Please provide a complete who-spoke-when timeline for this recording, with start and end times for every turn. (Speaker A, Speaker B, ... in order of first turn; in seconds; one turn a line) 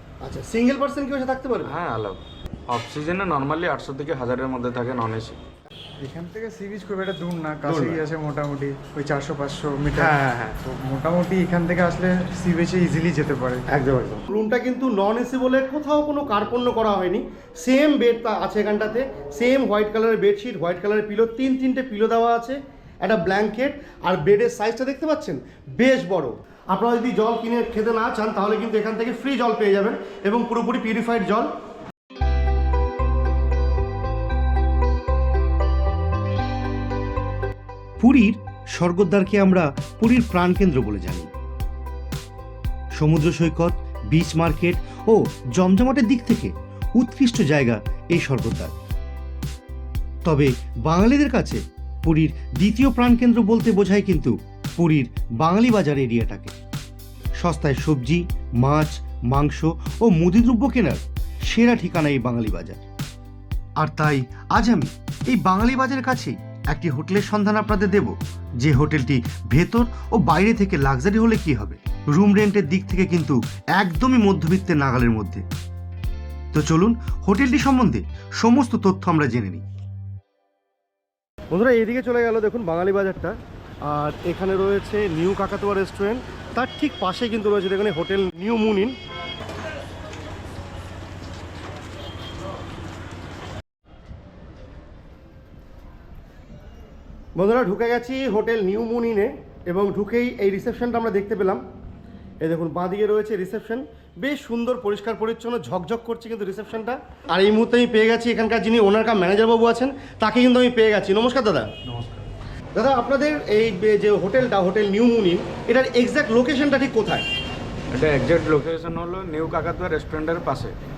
Speaker A: 0.2-1.7
Speaker B: 1.6-5.4
Speaker C: 6.0-13.6
Speaker A: 7.6-8.0
Speaker A: 10.0-10.6
Speaker A: 13.7-31.5
Speaker A: 38.0-41.3
Speaker A: 43.0-48.8
Speaker A: 50.2-56.5
Speaker A: 57.4-62.8
Speaker A: 63.8-75.5
Speaker A: 76.5-79.6
Speaker A: 81.5-89.0
Speaker A: 97.4-101.6
Speaker A: 102.4-111.7
Speaker B: 111.8-112.3
Speaker A: 112.8-117.3
Speaker B: 117.9-120.8